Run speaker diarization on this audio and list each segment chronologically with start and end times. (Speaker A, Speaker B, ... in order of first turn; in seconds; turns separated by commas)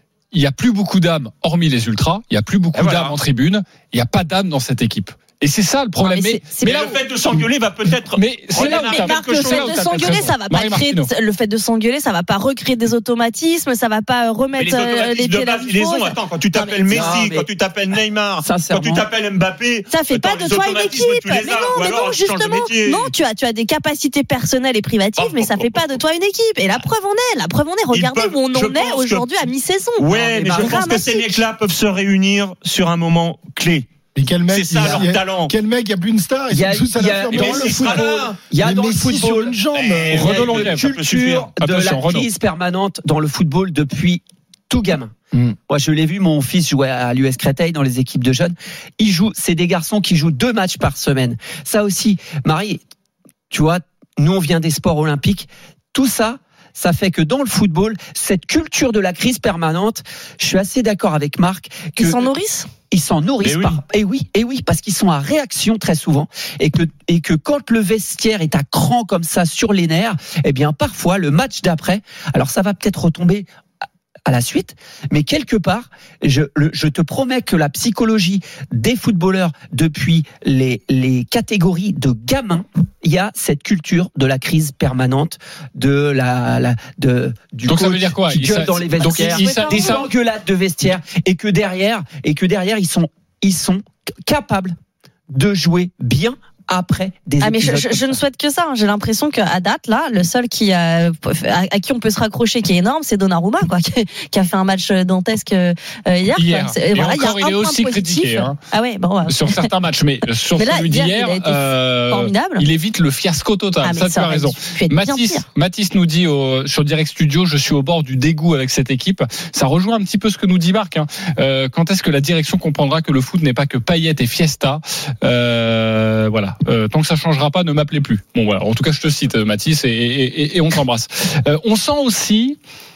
Speaker A: 0.3-6.5, Speaker B: 2.7-3.1, Speaker C: 6.0-7.0, Speaker B: 6.6-10.1, Speaker A: 8.1-11.1, Speaker C: 8.6-17.0, Speaker B: 14.6-23.1, Speaker D: 16.9-17.5, Speaker D: 18.4-19.1, Speaker C: 19.9-31.4, Speaker B: 25.2-25.9, Speaker B: 27.9-29.3, Speaker B: 30.0-33.9, Speaker D: 30.1-30.9, Speaker E: 34.1-40.4, Speaker B: 34.5-35.5, Speaker D: 36.5-39.6, Speaker B: 37.3-38.3, Speaker B: 39.7-41.5, Speaker A: 40.1-40.9, Speaker D: 40.1-45.1, Speaker A: 41.6-42.3, Speaker D: 45.7-52.8, Speaker D: 53.5-73.5, Speaker C: 62.0-62.7, Speaker B: 63.4-63.8, Speaker D: 74.2-94.8, Speaker A: 87.6-90.1, Speaker C: 89.0-90.0, Speaker D: 95.3-98.2, Speaker C: 97.4-109.7, Speaker A: 106.3-108.6, Speaker A: 109.2-132.6, Speaker C: 110.5-112.7, Speaker C: 113.8-115.4